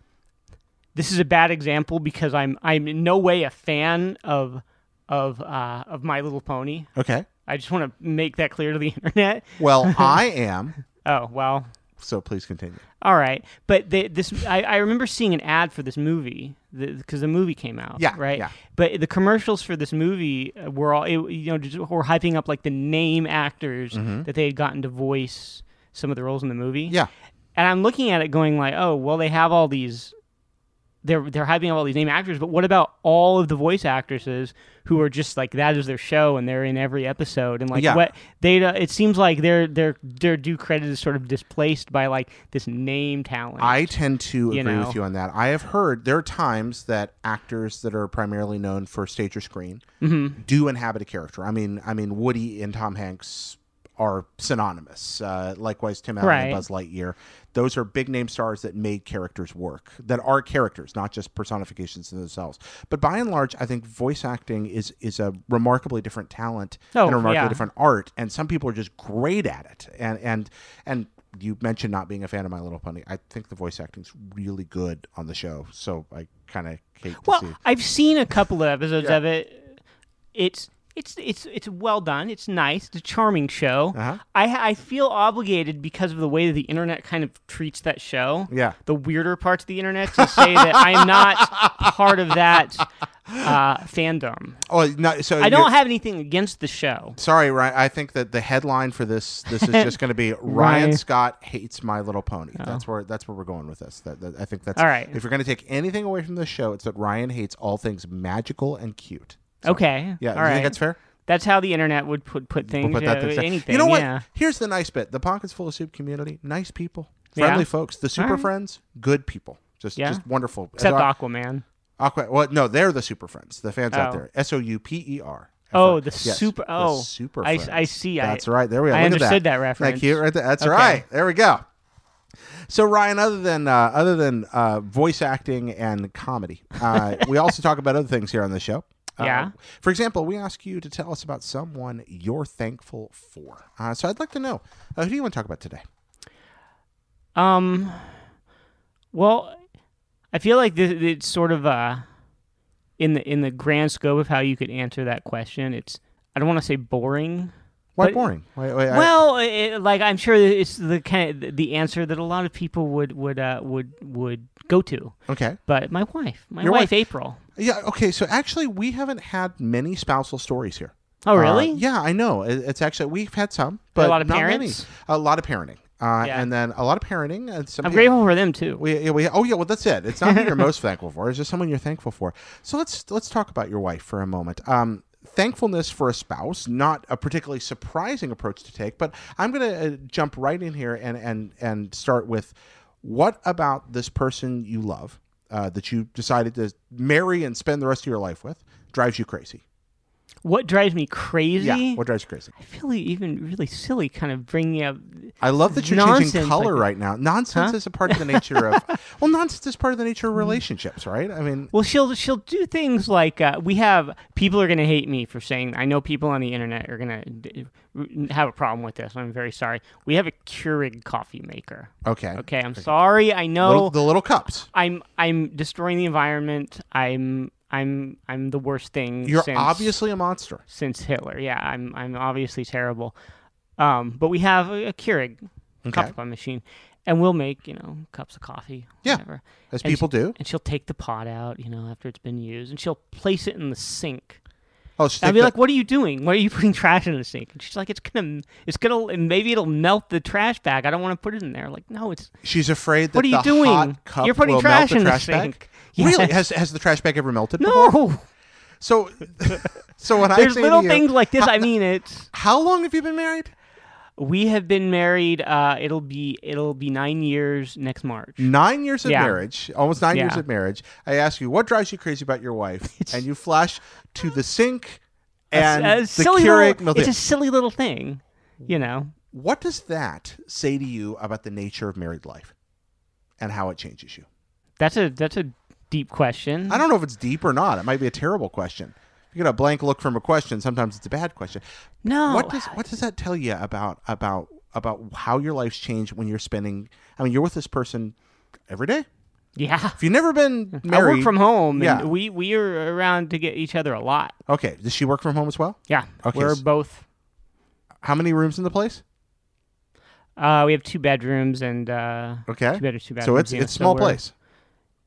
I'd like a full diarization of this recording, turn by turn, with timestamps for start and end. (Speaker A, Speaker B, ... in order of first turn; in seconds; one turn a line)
Speaker A: 0.9-6.9
Speaker B: 7.0-7.2
Speaker A: 7.5-10.2
Speaker B: 9.6-10.8
Speaker A: 11.0-11.7
Speaker B: 12.0-12.8
Speaker A: 13.0-27.0
Speaker B: 18.0-18.5
Speaker B: 23.9-24.3
Speaker A: 27.5-30.1
Speaker A: 31.0-43.9
Speaker B: 37.7-38.0
Speaker B: 43.6-49.8
Speaker A: 44.5-45.0
Speaker A: 50.0-50.4
Speaker B: 50.4-77.6
Speaker A: 56.2-56.6
Speaker A: 66.9-67.6
Speaker A: 77.2-79.8
Speaker A: 80.3-92.9
Speaker B: 83.9-84.2
Speaker B: 88.5-88.8
Speaker B: 90.2-91.9
Speaker B: 93.3-93.5
Speaker A: 93.4-94.6
Speaker B: 94.7-95.7
Speaker A: 95.4-97.2
Speaker B: 97.2-111.0
Speaker A: 99.5-99.9
Speaker A: 100.5-101.0
Speaker A: 102.6-102.8
Speaker A: 104.8-105.2
Speaker A: 109.6-114.2
Speaker B: 112.6-121.1
Speaker A: 117.3-118.5
Speaker A: 120.0-120.2
Speaker A: 120.8-121.6
Speaker B: 122.0-131.6
Speaker A: 123.9-124.2
Speaker A: 125.7-131.0
Speaker B: 132.7-145.8
Speaker A: 139.2-139.5
Speaker A: 147.3-148.1
Speaker A: 149.1-149.6
Speaker A: 150.3-152.0
Speaker A: 153.0-158.3
Speaker B: 157.9-159.1
Speaker A: 158.9-165.1
Speaker B: 165.3-165.6
Speaker A: 165.7-167.4
Speaker B: 166.6-166.9
Speaker B: 167.6-178.1
Speaker A: 171.2-171.8
Speaker A: 174.0-174.8
Speaker A: 176.2-176.5
Speaker A: 177.8-178.8
Speaker B: 178.8-199.6
Speaker A: 180.2-180.7
Speaker A: 200.4-202.0
Speaker B: 201.6-202.5
Speaker A: 202.5-206.8
Speaker B: 205.4-211.7
Speaker A: 207.5-208.9
Speaker A: 210.3-210.6
Speaker A: 211.7-224.0
Speaker B: 222.0-222.9
Speaker B: 223.6-224.7
Speaker A: 224.7-229.9
Speaker B: 229.2-230.6
Speaker A: 230.7-233.1
Speaker A: 233.8-244.4
Speaker B: 235.8-236.1
Speaker B: 239.0-240.3
Speaker B: 245.0-245.5
Speaker A: 245.2-252.3
Speaker B: 252.4-257.9
Speaker A: 253.1-256.3
Speaker A: 257.6-258.2
Speaker B: 258.8-261.7
Speaker A: 260.3-262.3
Speaker B: 262.3-263.5
Speaker A: 264.2-268.5
Speaker B: 268.4-277.1
Speaker A: 269.0-269.4
Speaker A: 270.1-270.4
Speaker A: 272.9-273.2
Speaker A: 275.5-279.1
Speaker B: 279.3-282.5
Speaker B: 283.4-284.2
Speaker A: 284.8-286.8
Speaker B: 286.7-291.6
Speaker A: 292.0-292.8
Speaker B: 292.2-298.1
Speaker B: 298.7-299.1
Speaker A: 299.6-300.0
Speaker B: 300.0-302.1
Speaker A: 300.7-304.3
Speaker B: 304.5-306.6
Speaker A: 305.9-307.0
Speaker B: 308.0-309.0
Speaker A: 310.4-314.2
Speaker B: 312.5-314.3